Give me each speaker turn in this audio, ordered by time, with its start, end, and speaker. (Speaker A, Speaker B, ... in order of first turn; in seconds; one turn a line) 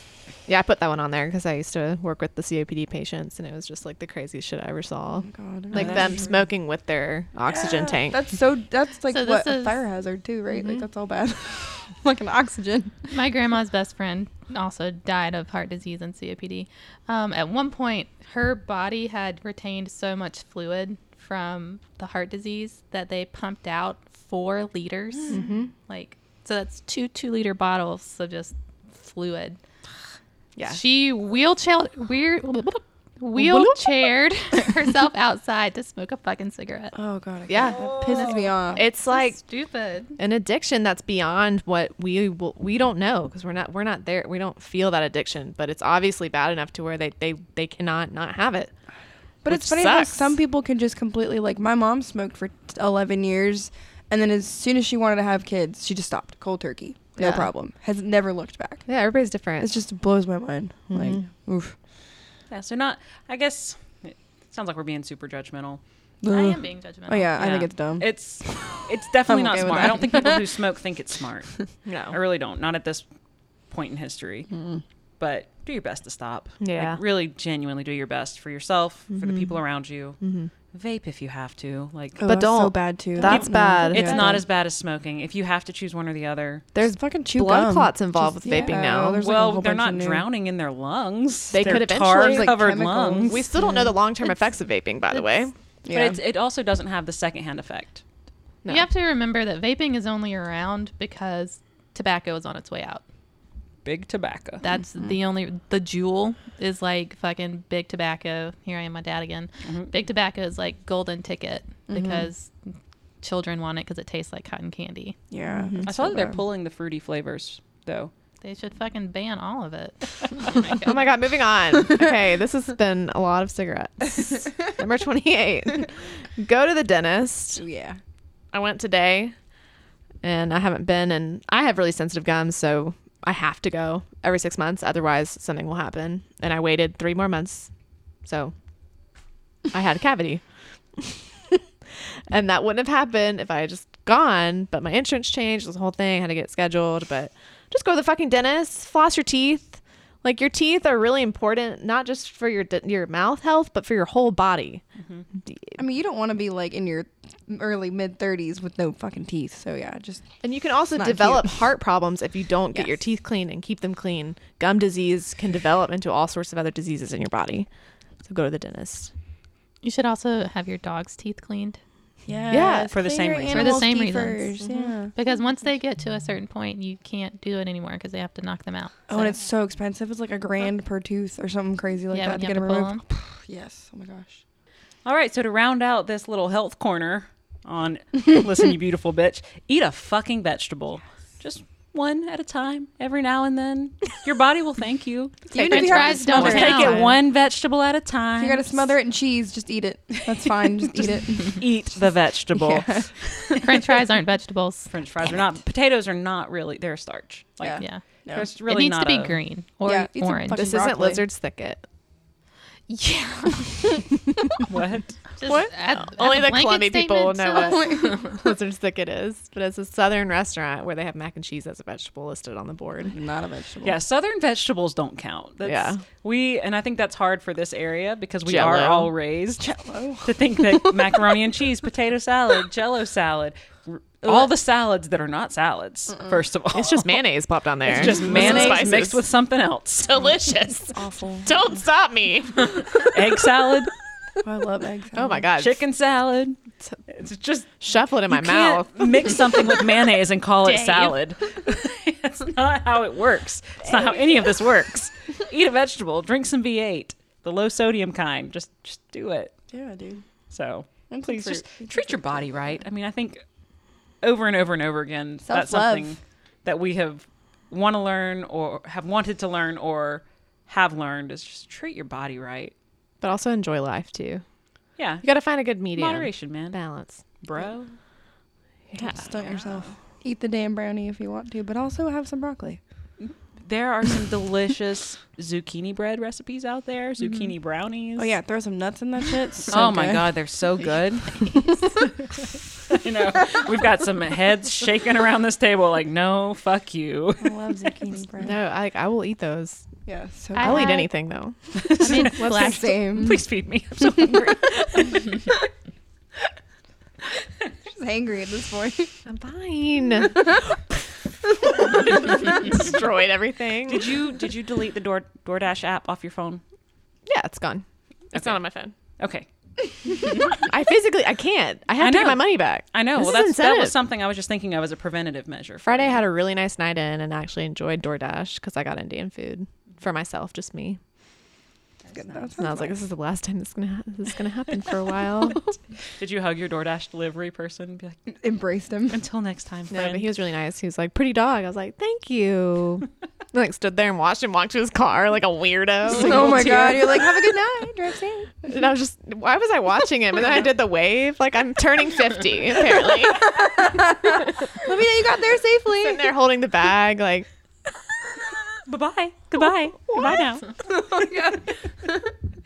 Speaker A: 0.5-8.2
Speaker B: 5.2-6.3
Speaker C: 5.7-6.3
Speaker B: 7.5-13.1
Speaker D: 9.1-9.8
Speaker A: 10.6-10.8
Speaker D: 13.1-29.6
Speaker A: 25.3-25.7
Speaker A: 30.6-30.8
Speaker D: 30.7-37.0
Speaker A: 33.4-33.9
Speaker B: 36.9-38.8
Speaker A: 37.5-38.0
Speaker C: 37.7-38.5
Speaker D: 38.7-40.2
Speaker A: 38.8-39.4
Speaker A: 40.2-48.7
Speaker B: 49.4-58.9
Speaker A: 49.5-50.4
Speaker A: 57.2-57.5
Speaker A: 58.9-59.7
Speaker B: 59.6-61.8
Speaker A: 60.9-61.3
Speaker C: 62.5-65.8
Speaker B: 66.2-70.5
Speaker D: 66.3-67.3
Speaker C: 67.4-73.0
Speaker A: 71.8-72.2
Speaker C: 73.7-74.5
Speaker B: 74.5-74.8
Speaker C: 75.2-80.2
Speaker A: 76.6-77.0
Speaker A: 79.1-79.5
Speaker A: 80.2-80.5
Speaker C: 80.7-82.3
Speaker B: 82.2-84.4
Speaker A: 82.3-84.4
Speaker C: 83.2-86.7
Speaker A: 86.8-89.2
Speaker B: 86.9-90.2
Speaker C: 89.2-93.5
Speaker A: 91.5-92.5
Speaker B: 91.6-93.9
Speaker A: 93.2-95.5
Speaker B: 95.8-96.2
Speaker C: 95.9-98.0
Speaker D: 98.7-103.0
Speaker C: 103.8-104.6
Speaker D: 104.6-112.5
Speaker C: 109.6-109.9
Speaker B: 111.9-112.3
Speaker D: 113.2-115.2
Speaker B: 115.3-116.4
Speaker A: 115.6-115.9
Speaker C: 115.8-118.1
Speaker D: 118.4-121.0
Speaker A: 120.7-127.6
Speaker B: 127.6-128.0
Speaker A: 128.5-129.3
Speaker A: 130.2-137.7
Speaker A: 138.2-138.5
Speaker A: 139.7-140.4
Speaker A: 141.0-141.6
Speaker A: 142.3-154.8
Speaker A: 155.4-155.8
Speaker B: 155.8-160.3
Speaker A: 160.4-167.7
Speaker B: 161.0-161.6
Speaker A: 168.2-169.1
Speaker D: 169.8-171.8
Speaker B: 172.3-175.1
Speaker A: 172.5-172.9
Speaker C: 172.9-173.8
Speaker D: 173.5-174.5
Speaker D: 175.2-179.3
Speaker B: 179.1-184.4
Speaker D: 182.1-183.0
Speaker C: 185.1-198.9
Speaker B: 195.5-197.2
Speaker D: 195.6-197.1
Speaker B: 198.4-201.6
Speaker C: 201.4-203.6
Speaker B: 202.6-203.1
Speaker D: 203.6-204.9
Speaker C: 204.9-209.4
Speaker B: 207.6-208.5
Speaker D: 207.8-210.6
Speaker B: 209.8-211.2
Speaker A: 210.5-211.8
Speaker D: 212.9-214.1
Speaker C: 214.7-215.2
Speaker D: 215.4-218.4
Speaker A: 215.4-223.2
Speaker B: 217.6-218.1
Speaker B: 223.1-224.0
Speaker C: 223.8-237.2
Speaker A: 225.6-226.0
Speaker A: 228.5-229.1
Speaker B: 229.6-230.9
Speaker A: 236.7-239.2
Speaker C: 237.9-240.3
Speaker B: 238.0-238.9
Speaker A: 240.1-243.2
Speaker B: 240.9-241.6
Speaker C: 243.1-243.9
Speaker B: 244.4-245.4
Speaker A: 245.2-245.8
Speaker C: 245.6-259.5
Speaker A: 247.8-249.6
Speaker D: 250.7-251.0
Speaker B: 259.7-260.2
Speaker C: 260.5-263.4
Speaker B: 261.1-262.4
Speaker C: 264.2-272.7
Speaker B: 265.4-266.1
Speaker A: 273.2-274.4
Speaker C: 275.0-275.2
Speaker A: 275.2-277.2
Speaker C: 275.9-276.8
Speaker C: 277.4-277.9
Speaker B: 279.0-282.8
Speaker C: 283.2-288.4
Speaker B: 288.2-290.3
Speaker C: 289.7-291.5
Speaker C: 292.9-297.8
Speaker B: 297.4-298.6
Speaker A: 298.4-299.9
Speaker B: 300.1-301.0
Speaker D: 300.6-301.1
Speaker A: 300.6-301.6
Speaker C: 301.8-305.4
Speaker D: 302.0-302.9
Speaker B: 302.3-303.4
Speaker B: 307.9-309.1
Speaker A: 309.3-310.8
Speaker B: 310.3-310.6
Speaker A: 311.9-314.1
Speaker C: 313.9-316.6
Speaker A: 317.3-318.9
Speaker C: 318.3-318.6
Speaker C: 319.2-319.5
Speaker A: 320.4-324.0
Speaker C: 322.0-326.2
Speaker A: 325.8-331.0
Speaker C: 332.0-332.5
Speaker B: 332.1-333.0
Speaker A: 332.6-335.8
Speaker C: 336.2-338.3
Speaker B: 338.3-339.2
Speaker C: 339.1-340.3
Speaker A: 339.9-347.2
Speaker B: 346.1-348.7
Speaker A: 348.7-353.8
Speaker B: 353.3-356.3
Speaker A: 356.0-357.5
Speaker C: 358.9-360.7
Speaker B: 360.8-362.2